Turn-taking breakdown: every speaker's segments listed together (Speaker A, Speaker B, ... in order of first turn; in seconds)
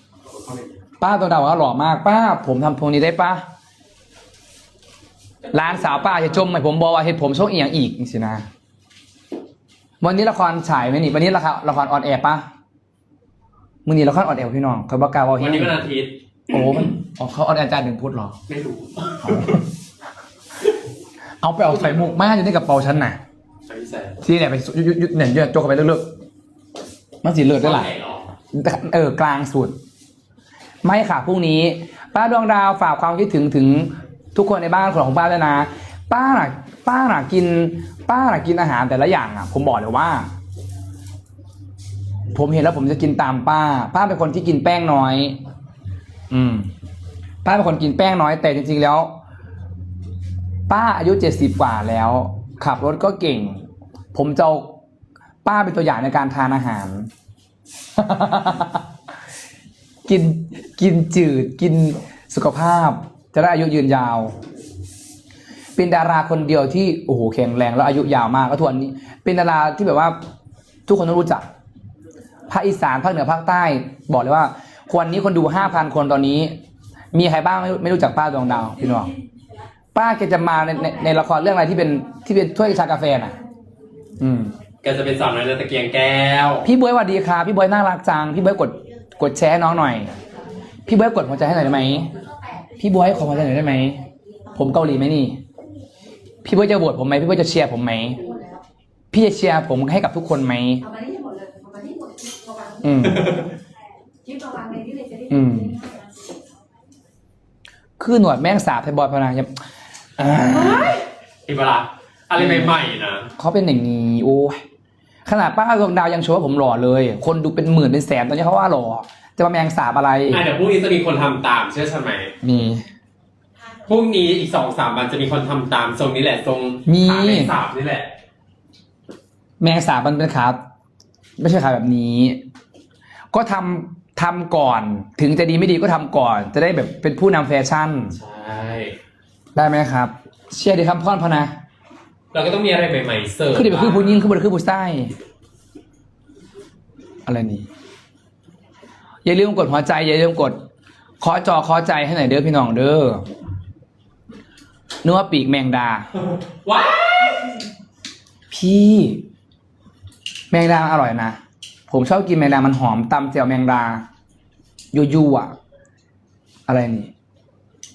Speaker A: 0.2-0.8, 5.4-6.4, 15.4-16.2, 18.5-19.6, 21.8-22.1, 23.7-24.2, 27.6-28.2, 84.8-86.7, 103.0-103.5, 110.6-111.0, 111.5-113.3, 120.3-122.3, 123.8-128.1, 138.1-139.0, 142.3-144.3, 156.3-157.6
Speaker B: 1.0-3.4, 5.5-8.5, 10.0-12.4, 13.8-15.8, 16.5-18.4, 19.3-19.5, 21.4-23.2, 24.2-26.1, 27.2-27.9, 28.5-29.8, 30.8-40.3, 42.3-45.4, 46.3-46.7, 47.4-49.1, 50.7-53.6, 54.1-54.8, 55.5-57.1, 58.0-58.8, 60.1-64.3, 65.8-70.2, 70.9-71.5, 72.5-76.5, 77.1-79.1, 80.0-83.4, 84.2-84.5, 86.6-90.2, 90.9-92.2, 92.8-94.0, 94.5-95.4, 96.5-98.2, 99.1-100.9, 102.8-103.4, 105.3-105.8, 108.0-109.5, 110.2-111.0, 112.4-112.7, 113.4-114.6, 115.3-120.5, 122.4-122.8, 126.9-127.5, 129.6-130.6, 131.4-132.4, 133.3-138.2, 139.6-141.5, 143.5-145.1, 147.3-147.7, 149.2-150.6, 151.2-153.2, 155.0-156.1, 158.5-159.2, 160.5-164.0, 164.9-165.6, 166.7-167.1
Speaker C: 98.3-98.6, 100.9-102.8, 104.2-106.1